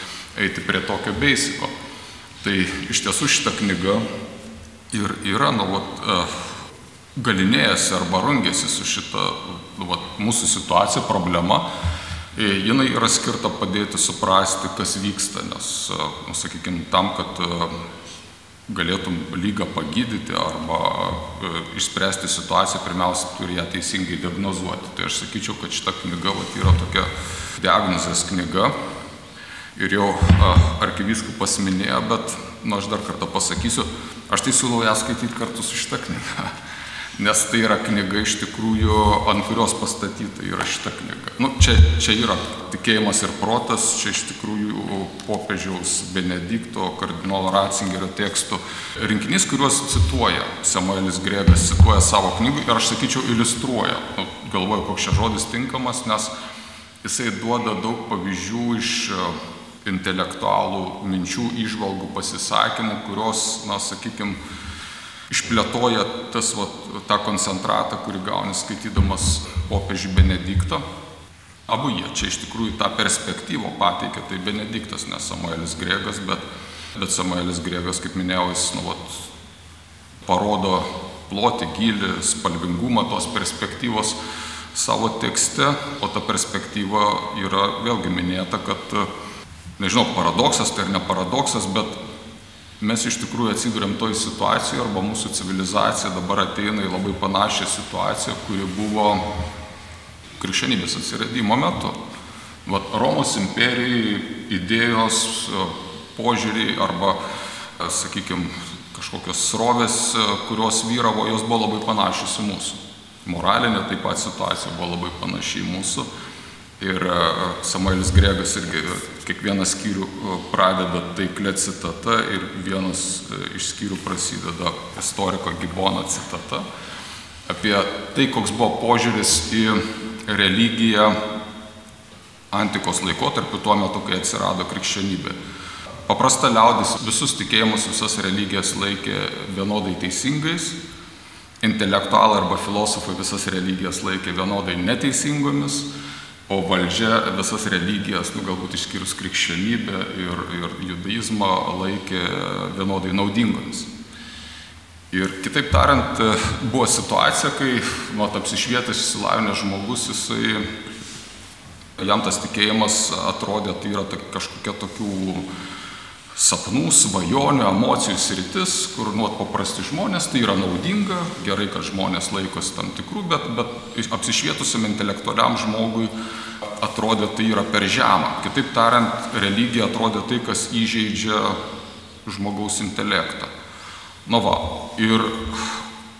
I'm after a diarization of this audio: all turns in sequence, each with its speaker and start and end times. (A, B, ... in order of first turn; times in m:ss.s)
0:00.4-0:01.7 A
0:02.4-0:04.1 A
0:04.9-0:06.5 A
0:07.2-0:11.7 A
0:12.4-0:17.8 A
0:18.7-0:28.8 A
0:29.8-0:36.5 A
0:37.2-0:56.3 A
0:57.0-1:04.4 A
1:05.3-1:10.8 A
1:11.7-1:16.4 A
1:17.0-1:19.3 A
1:20.2-1:24.2 A
1:24.7-1:29.1 A
1:29.8-1:32.0 A
1:32.8-1:39.3 A
1:40.4-1:42.0 A
1:42.6-1:47.2 A
1:47.8-1:56.1 A
1:56.8-2:06.6 A
2:07.5-2:11.2 A
2:12.5-2:15.4 A
2:16.1-2:20.8 A
2:21.6-2:25.9 A
2:26.5-2:33.9 A
2:35.1-2:40.7 A
2:42.0-2:45.5 A
2:46.4-2:56.1 A
2:56.8-3:01.6 A
3:02.2-3:03.5 A
3:04.3-3:05.8 A